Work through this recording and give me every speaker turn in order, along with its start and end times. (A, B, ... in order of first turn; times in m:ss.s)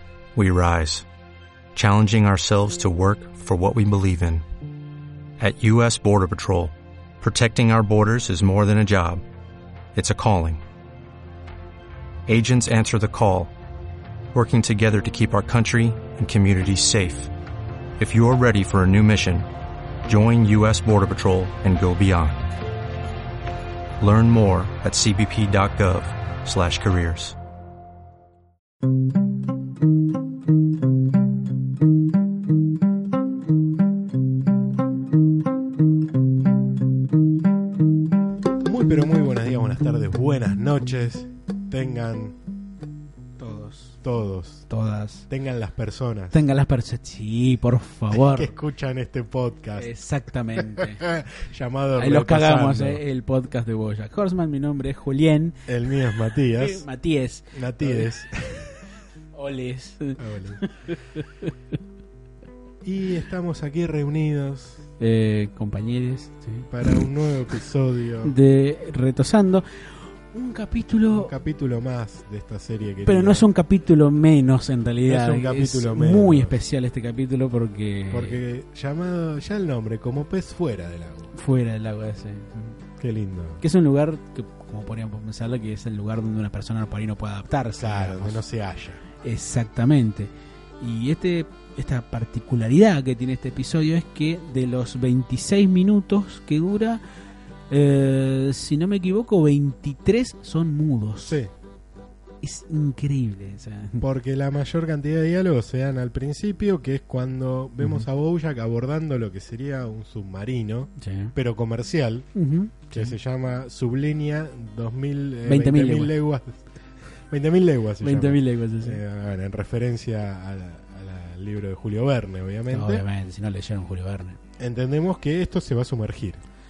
0:00.3-0:01.0 A
0:01.7-0:04.4 A
0:05.4-0:09.2 A
0:09.9-0:10.6 A
0:12.3-0:13.5 A
0:14.3-0:17.3 A
0:18.0-0:19.5 A
0:20.0-0:22.5 A
0:24.0-0:27.4 A
0:38.6-0:42.4 B
0:43.4-0:44.0 C
0:44.0-0:44.6 B
0:44.7-0:45.3 C
0:45.3-0:46.4 B
0:46.3-0:48.5 C
0:48.1-0:49.9 B
0:49.8-0:51.0 C
0:50.5-0:53.0 B
0:52.0-0:55.6 C
0:55.7-0:56.8 B
0:56.4-0:58.1 C
0:57.5-0:58.8 B
0:59.3-1:01.5 C
1:00.2-1:00.6 B
1:02.8-1:04.8 B
1:05.0-1:07.0 C
1:06.7-1:08.4 B
1:08.2-1:11.3 C
1:11.1-1:13.4 B
1:13.0-1:18.4 C
1:15.0-1:16.5 B
1:18.1-1:21.3 B
1:21.3-1:22.8 C
1:23.0-1:23.6 B
1:23.6-1:28.4 C
1:27.8-1:29.0 B
1:29.2-1:37.0 C
1:37.7-1:41.4 C
1:41.2-1:41.5 B
1:42.4-1:44.0 C
1:44.0-1:52.3 B
1:51.0-1:51.3 C
1:52.3-1:53.1 C
1:52.9-1:56.6 B
1:55.4-1:56.1 C
1:57.3-2:03.0 B
1:58.0-1:59.0 C
2:02.7-2:04.4 C
2:04.6-2:06.4 B